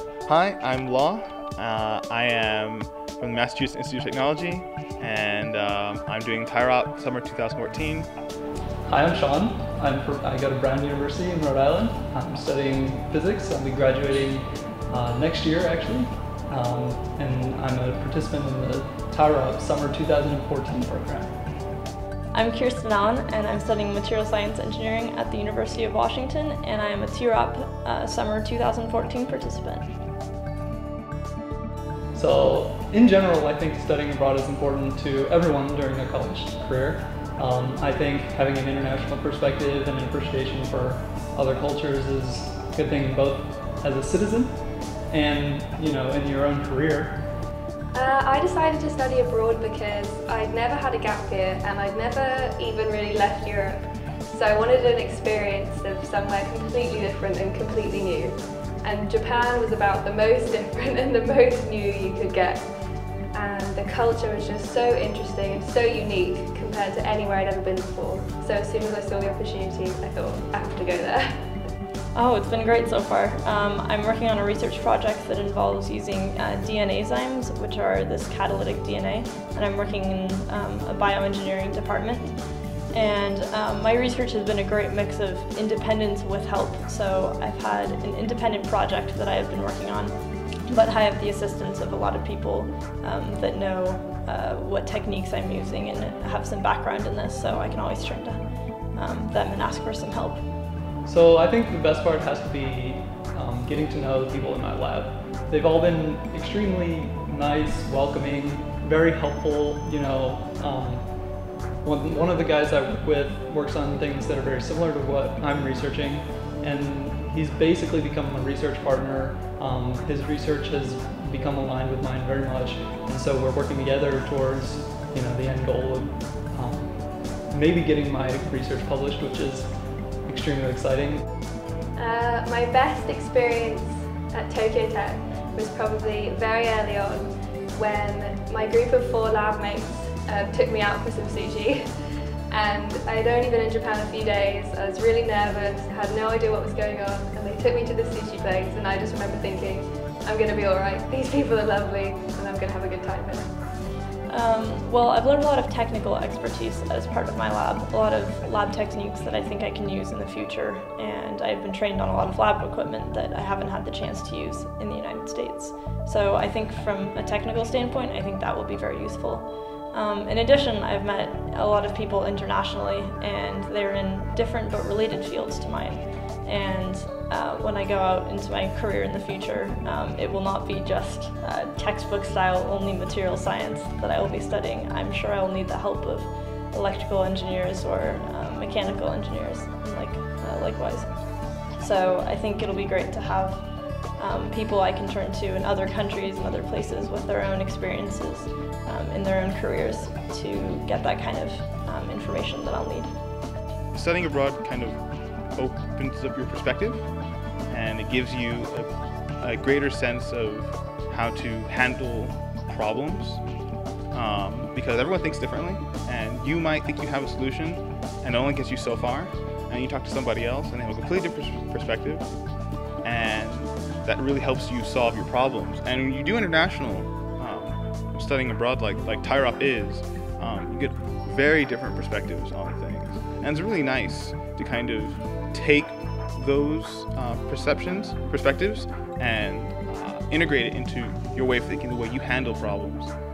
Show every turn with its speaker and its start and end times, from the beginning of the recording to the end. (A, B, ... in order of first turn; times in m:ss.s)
0:00.2-0:08.1 A
0:08.9-0:21.5 B
0:22.3-0:30.0 C
0:32.1-0:47.3 B
0:47.9-1:02.7 D
1:03.3-1:11.4 D
1:12.1-1:40.5 C
1:41.0-2:11.2 B
2:11.9-2:21.9 D
2:22.5-2:33.5 D
2:34.3-3:23.2 C
3:23.9-3:25.0 A
3:25.5-3:27.1 A
3:27.7-3:28.9 A
3:29.4-3:33.4 A
3:34.1-3:42.3 A
3:43.0-4:03.1 A